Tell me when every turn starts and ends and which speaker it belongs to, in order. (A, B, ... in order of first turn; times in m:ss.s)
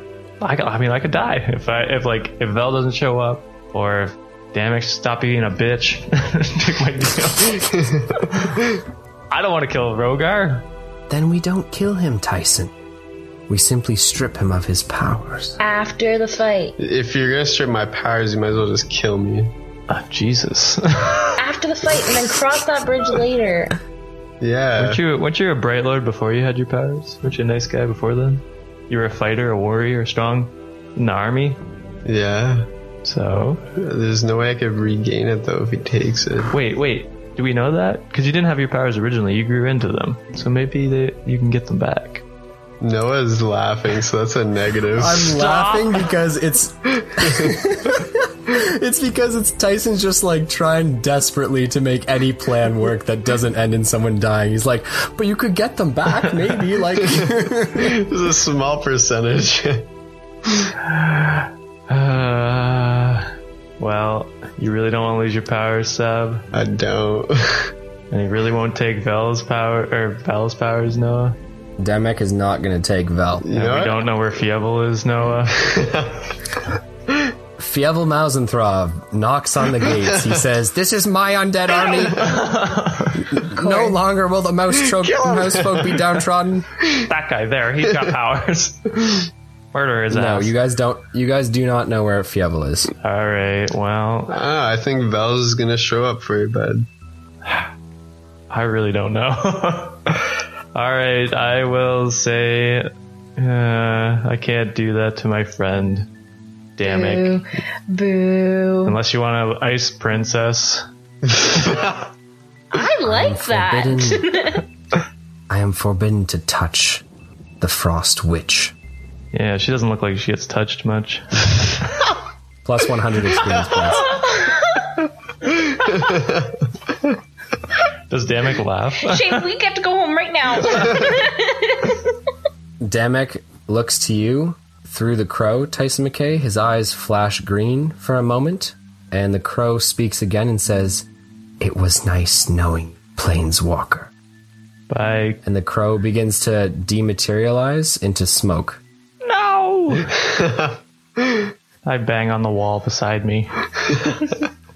0:00.4-0:07.8 A
0:07.6-0:08.6 B
0:09.3-0:10.6 A
0:11.1-0:12.7 C
0:13.5-0:15.6 C
0:15.6-0:16.8 D
0:16.8-0:19.5 B
0:19.9-0:21.4 A
0:21.4-0:23.8 D
0:24.4-0:25.0 B
0:24.8-0:31.6 A
0:32.0-0:32.7 B
0:33.0-0:33.6 A
0:33.8-0:36.5 B
0:36.5-0:42.2 A
0:42.8-0:45.4 B
0:44.9-0:58.0 C
0:45.3-0:46.1 A
0:47.0-0:47.6 B
0:57.0-0:59.9 B
1:00.8-1:06.4 A
1:06.5-1:07.7 B
1:08.1-1:11.4 A
1:11.8-1:13.5 C
1:13.4-1:14.1 B
1:13.5-1:15.7 A
1:15.6-1:16.3 B
1:17.6-1:22.5 C
1:21.9-1:23.3 A
1:23.1-1:26.7 C
1:23.5-1:24.0 D
1:24.9-1:26.1 B
1:27.0-1:29.0 A
1:29.7-1:30.5 A
1:30.1-1:32.9 C
1:33.0-1:34.4 A
1:34.3-1:36.9 B
1:38.5-1:46.1 A
1:46.8-1:47.4 A
1:46.8-1:49.0 D
1:48.8-1:50.8 A
1:51.4-1:52.0 B
1:52.7-1:54.6 D
1:53.0-1:54.3 C
1:55.5-1:57.0 C
1:57.6-1:58.7 C
1:59.3-2:01.8 A
2:02.6-2:04.2 C
2:04.0-2:04.9 D
2:05.9-2:06.4 B
2:08.1-2:09.4 A
2:09.0-2:12.0 D
2:12.8-2:21.1 C
2:21.6-2:24.1 C
2:24.9-2:25.4 A
2:25.4-2:28.8 C
2:29.2-2:30.1 A
2:30.1-2:31.5 B
2:31.8-2:33.5 A
2:33.9-2:34.3 B